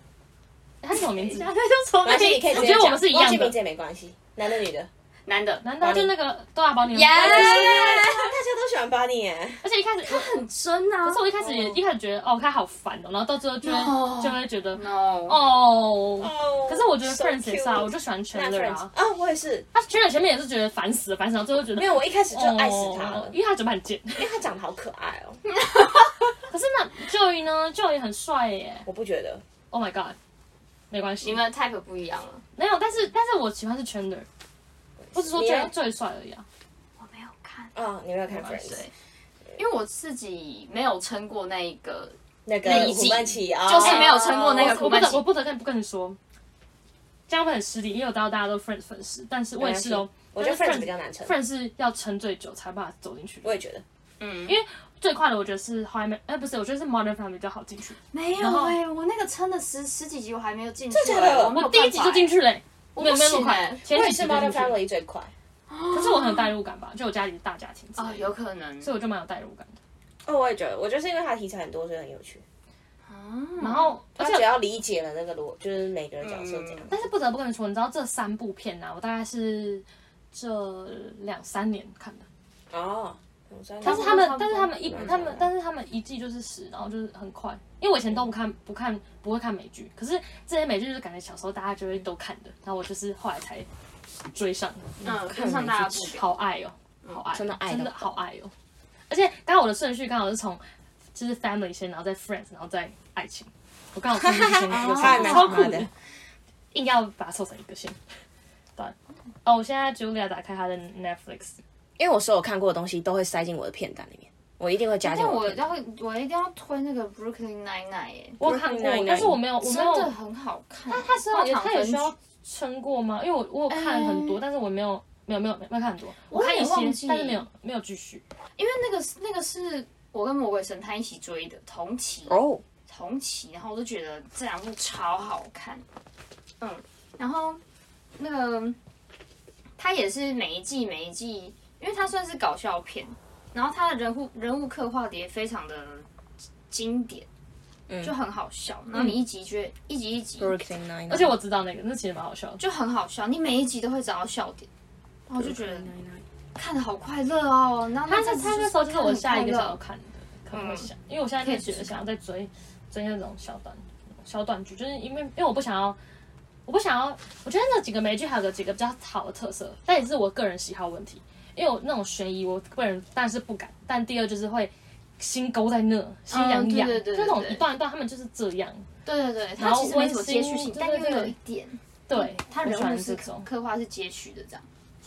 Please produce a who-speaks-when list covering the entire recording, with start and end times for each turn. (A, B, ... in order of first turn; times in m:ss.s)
0:00.8-0:03.6 A
0:01.0-0:02.6 B
0:02.0-0:04.9 C
0:05.3-0:05.7 B
0:05.6-0:07.9 A
0:05.8-0:06.2 C
0:06.9-0:08.4 B
0:07.1-0:09.6 C
0:09.6-0:10.4 A
0:10.0-0:11.8 B
0:11.0-0:18.9 A
0:13.6-0:15.4 B
0:16.2-0:19.7 C
0:19.7-0:24.4 A
0:21.8-0:23.4 C
0:24.2-0:25.4 C
0:25.6-0:26.1 B
0:26.5-0:28.9 A
0:28.8-0:29.4 C
0:29.7-0:30.2 A
0:30.9-0:31.4 A
0:31.2-0:32.4 B
0:32.6-0:34.3 A
0:35.0-0:35.7 C
0:35.1-0:36.5 A
0:37.0-0:37.7 B
0:37.7-0:38.9 C
0:38.4-0:38.9 B
0:39.6-0:45.3 B
0:42.5-0:45.0 C
0:43.8-0:46.2 A
0:47.3-0:53.6 A
0:49.6-0:51.4 C
0:53.4-0:53.8 C
0:54.2-0:54.6 B
0:54.5-0:58.8 A
0:58.1-1:02.4 B
1:00.9-1:01.8 C
1:01.5-1:04.8 A
1:03.0-1:03.9 B
1:03.9-1:05.3 C
1:05.7-1:06.6 B
1:05.9-1:09.8 A
1:08.0-1:09.0 B
1:10.2-1:12.4 C
1:13.1-1:14.0 B
1:13.6-1:14.6 A
1:14.2-1:16.9 C
1:16.2-1:17.0 B
1:16.9-1:22.3 A
1:22.7-1:25.5 C
1:23.8-1:25.3 B
1:23.8-1:33.7 A
1:34.3-1:35.0 A
1:35.0-1:36.0 C
1:35.0-1:36.3 B
1:35.5-1:38.5 A
1:37.0-1:37.3 B
1:37.3-1:38.2 C
1:39.1-1:45.9 A
1:44.2-1:45.9 C
1:44.7-1:45.8 B
1:46.7-1:48.0 A
1:48.8-1:51.6 A
1:52.0-1:55.7 C
1:55.0-1:58.4 B
1:58.4-2:00.1 A
1:58.4-1:59.4 C
1:59.6-2:02.1 B
2:00.9-2:08.2 A
2:03.7-2:04.4 B
2:06.3-2:07.4 B
2:08.6-2:15.8 B
2:12.3-2:12.6 C
2:16.6-2:17.6 B
2:18.2-2:18.8 B
2:19.8-2:26.1 B
2:26.7-2:27.3 B
2:27.9-2:28.2 C
2:28.0-2:30.6 B
2:28.9-2:29.2 C
2:30.4-2:31.4 C
2:31.1-2:32.6 A
2:32.6-2:34.7 B
2:35.3-2:35.9 B
2:35.3-2:36.2 C
2:36.6-2:39.8 B
2:38.0-2:46.0 A
2:40.5-2:40.9 B
2:41.4-2:42.0 B
2:46.7-2:58.9 A
2:56.3-2:57.7 B
2:59.0-3:04.7 B
2:59.6-3:01.4 A
3:02.1-3:03.5 A